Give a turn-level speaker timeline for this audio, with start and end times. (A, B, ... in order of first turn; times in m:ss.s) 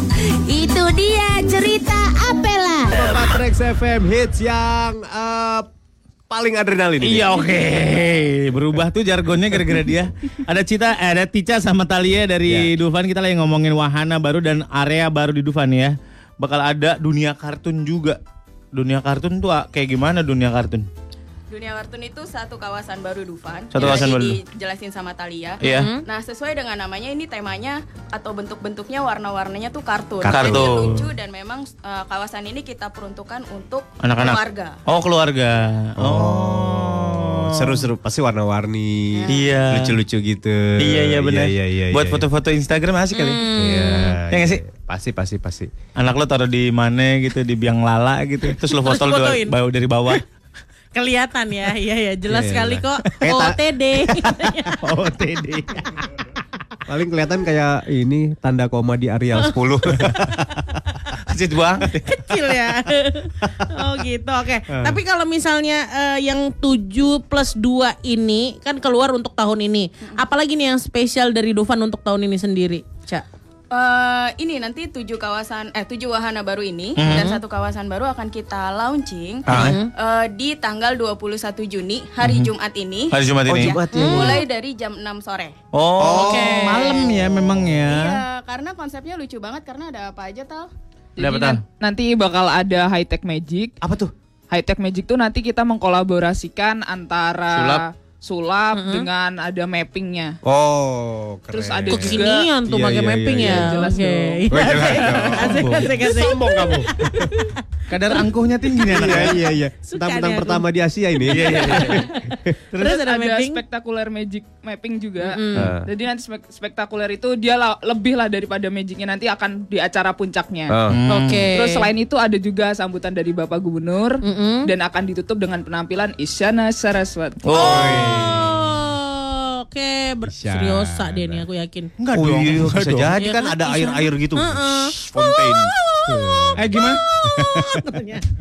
0:00.2-0:03.2 A
0:02.9-0:05.7 B
0:06.3-0:07.4 B
0:07.0-0:18.2 C
0:12.4-0:12.7 B
0:18.7-0:20.9 C
0:21.5-0:34.8 D
0:23.7-0:24.4 C
0:25.6-0:25.9 C
0:25.6-0:26.0 E
0:30.2-0:30.8 B
0:30.2-0:31.1 C
0:34.0-0:37.9 C
0:36.0-0:42.2 B
0:39.3-0:40.0 C
0:40.8-0:43.4 C
0:43.1-0:44.2 E
0:43.5-0:45.7 B
0:44.3-0:44.6 C
0:46.0-0:50.2 C
0:48.6-0:49.5 E
0:50.9-0:54.8 E
0:52.3-0:53.6 B
0:54.8-0:56.1 C
0:56.8-1:00.3 B
1:01.2-1:02.1 C
1:02.0-1:13.2 E
1:04.7-1:05.0 B
1:13.7-1:25.5 D
1:17.0-1:17.4 C
1:19.5-1:19.7 C
1:19.5-1:19.9 E
1:22.2-1:22.5 C
1:23.1-1:23.8 C
1:23.5-1:24.4 B
1:23.9-1:24.4 E
1:25.7-1:28.2 C
1:26.0-1:26.6 B
1:26.1-1:26.9 E
1:26.6-1:27.2 D
1:27.8-1:30.7 D
1:31.2-1:33.7 F
1:31.2-1:31.6 C
1:33.8-1:34.1 B
1:34.5-1:40.4 F
1:38.7-1:39.1 E
1:40.4-1:43.8 B
1:41.5-1:42.5 F
1:41.9-1:47.6 E
1:43.4-1:44.5 F
1:44.5-1:47.2 B
1:44.8-1:45.9 C
1:47.9-1:49.4 C
1:48.9-1:52.5 B
1:49.8-1:50.7 E
1:51.2-1:53.6 E
1:51.3-1:52.1 C
1:52.8-2:00.8 F
1:55.2-1:55.7 E
1:55.6-1:55.9 B
2:00.7-2:01.0 B
2:00.9-2:01.5 C
2:01.1-2:01.9 E
2:01.5-2:07.4 F
2:04.2-2:04.7 E
2:07.4-2:08.1 C
2:07.5-2:11.9 E
2:07.5-2:08.6 B
2:10.2-2:11.4 B
2:12.0-2:13.1 C
2:12.1-2:16.6 B
2:13.2-2:18.2 E
2:16.6-2:17.0 C
2:17.2-2:17.7 B